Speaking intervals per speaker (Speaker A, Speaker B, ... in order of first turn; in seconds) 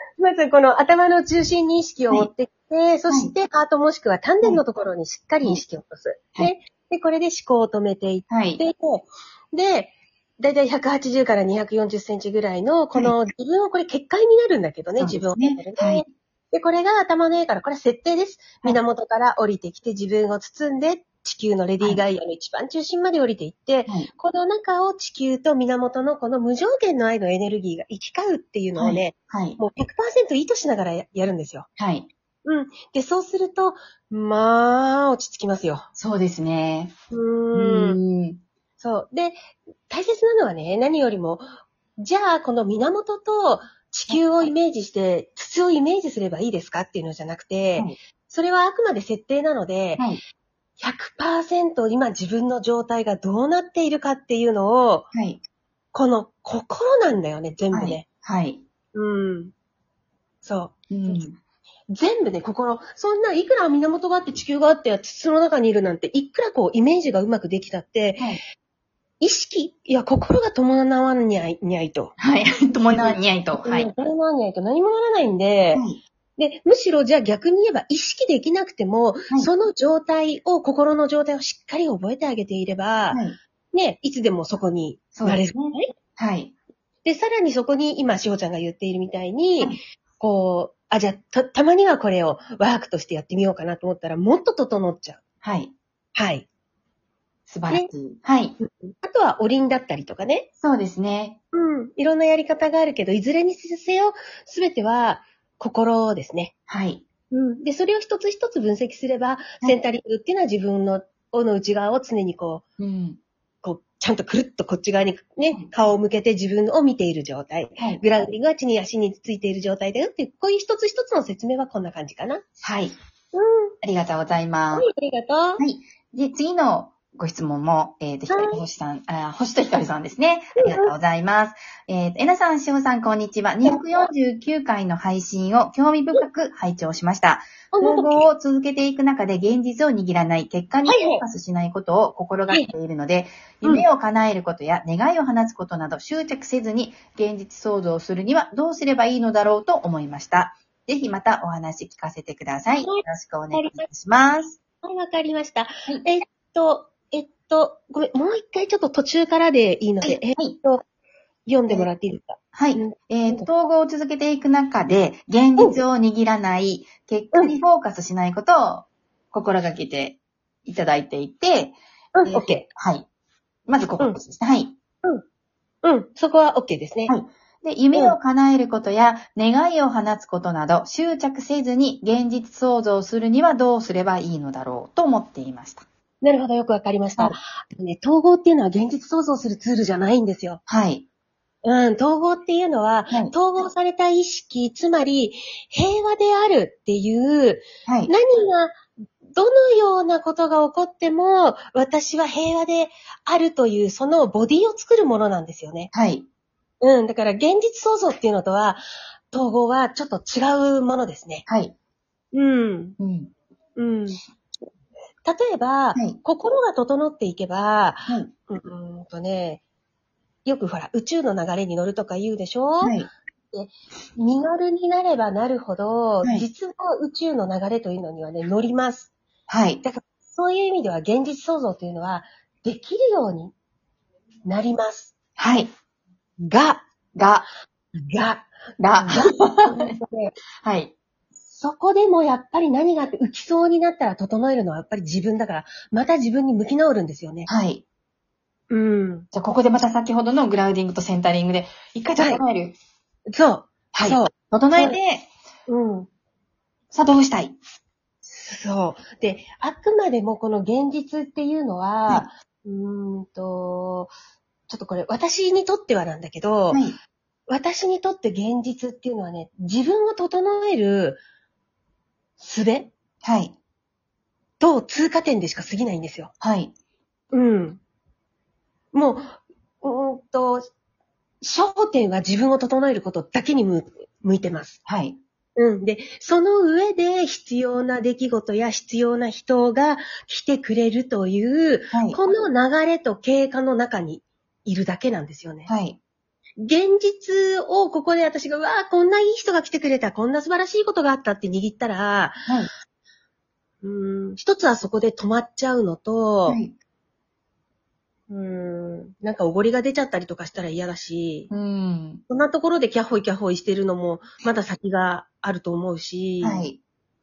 Speaker A: 0.2-31.7, 32.5-35.9, 37.1-38.0, 38.8-39.4, 39.9-41.4, 42.0-50.0, 50.8-55.1, 55.9-58.0, 58.9-59.5, 60.4-61.2, 61.9-68.3, 69.2-72.1, 72.9-75.8, 76.4-83.2, 83.7-85.9, 87.0-95.2, 96.1-96.5, 98.6-100.5, 101.5-106.5, 107.3-112.6, 113.6-122.4, 123.3-123.7, 124.8-125.6, 128.3-128.6, 130.6-130.9, 137.7-138.3, 140.9-141.2, 152.8-153.9, 154.8-160.8, 161.4-163.5, 172.1-172.7, 175.8-177.1, 186.2-190.6, 191.6-198.8, 199.4-205.9, 206.8-211.4, 212.3-213.0, 213.8-214.2, 215.2-219.6, 220.4-223.0, 223.5-229.1, 229.8-233.5, 234.4-235.1, 236.4-236.8, 238.0-238.5, 239.0-240.3, 241.5-247.5, 248.7-249.3, 253.3-255.0, 255.7-256.1, 258.2-264.1, 264.7-266.8, 267.5-271.2, 272.4-272.9, 274.6-276.3, 277.3-277.8, 278.9-280.7, 281.4-284.8, 285.6-295.7, 296.6-302.4, 303.8-306.6, 308.3-311.5, 312.3-316.6
Speaker B: 8.3-8.6, 15.0-16.0, 28.8-29.6, 31.8-32.1, 36.0-36.9, 37.5-38.4, 44.1-44.5, 55.1-55.4, 57.7-58.6, 60.9-61.4, 72.2-73.9, 75.7-76.0, 83.1-83.4, 85.1-86.5, 95.4-95.7, 97.5-98.6, 100.6-101.4, 106.7-107.0, 112.8-113.2, 117.8-118.0, 122.6-122.9, 123.8-124.9, 125.6-154.6, 160.0-160.6, 162.5-173.1, 173.7-174.8, 177.1-185.8, 190.7-191.1, 193.1-193.3, 197.9-198.1, 205.9-206.2, 211.5-211.7, 213.0-213.3, 222.8-223.1, 229.5-229.8, 235.4-235.7, 237.1-237.5, 238.8-239.9, 240.6-240.9, 247.5-247.8, 249.3-252.8, 253.9-255.3, 256.9-257.6, 266.7-266.9, 273.2-273.6, 276.4-276.7, 284.9-285.2, 291.9-292.2, 295.7-296.0, 302.4-302.7, 306.5-306.7, 311.5-312.2, 316.4-316.8